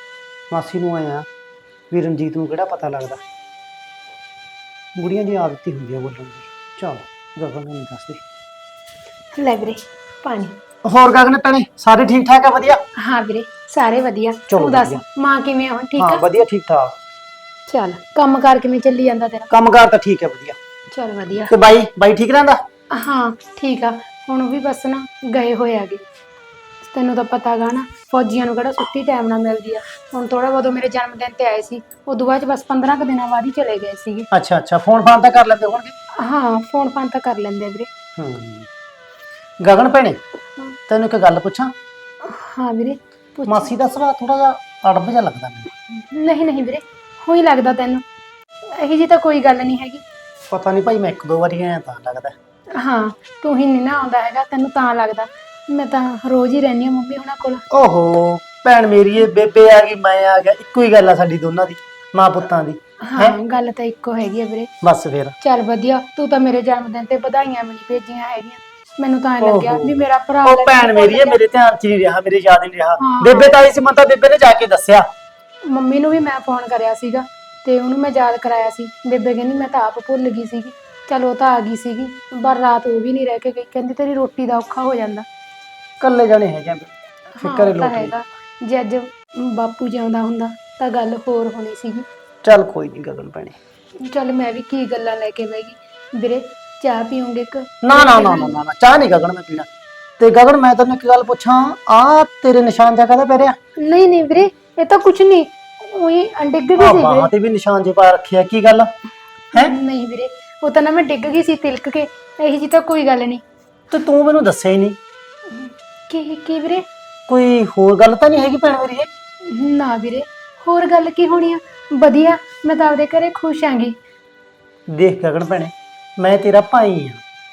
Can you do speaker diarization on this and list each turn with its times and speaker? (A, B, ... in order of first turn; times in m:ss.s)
0:00.5-0:01.2 A
0:01.9-0:03.2 A
0:04.9-0:08.2 A
0:09.4-0:10.6 B
0:10.8-0:12.8 A
0:13.0-0:16.2 B
0:14.5-0:15.0 A
0:16.0-0:16.9 A
0:17.7-0:19.5 B
0:19.5-0:20.6 A
0:20.9-0:21.5 B
0:21.5-0:22.6 A
0:22.9-0:26.0 B
0:26.9-0:34.3 B
0:34.3-0:35.9 A
0:36.2-0:37.9 B
0:38.2-0:38.7 A
0:39.6-0:40.2 A
0:40.9-0:41.7 A
0:42.2-0:43.7 B
0:43.4-0:45.6 A
0:46.0-0:48.0 B
0:48.7-0:50.0 B
0:50.5-0:52.3 A
0:52.8-0:57.6 B
0:57.7-1:03.4 A
1:03.0-1:04.7 B
1:04.8-1:05.3 A
1:05.4-1:11.4 B
1:09.4-1:15.0 A
1:13.0-1:13.6 B
1:15.7-1:25.2 B
1:26.0-1:28.1 A
1:27.4-1:32.0 B
1:32.4-1:33.6 A
1:34.0-1:38.6 B
1:37.8-1:39.7 A
1:40.2-1:43.6 A
1:43.8-1:47.3 B
1:46.8-1:48.9 A
1:49.5-1:53.4 B
1:53.9-1:55.0 A
1:55.5-1:56.8 B
1:57.3-1:59.1 A
1:59.5-2:04.0 B
2:04.9-2:07.2 A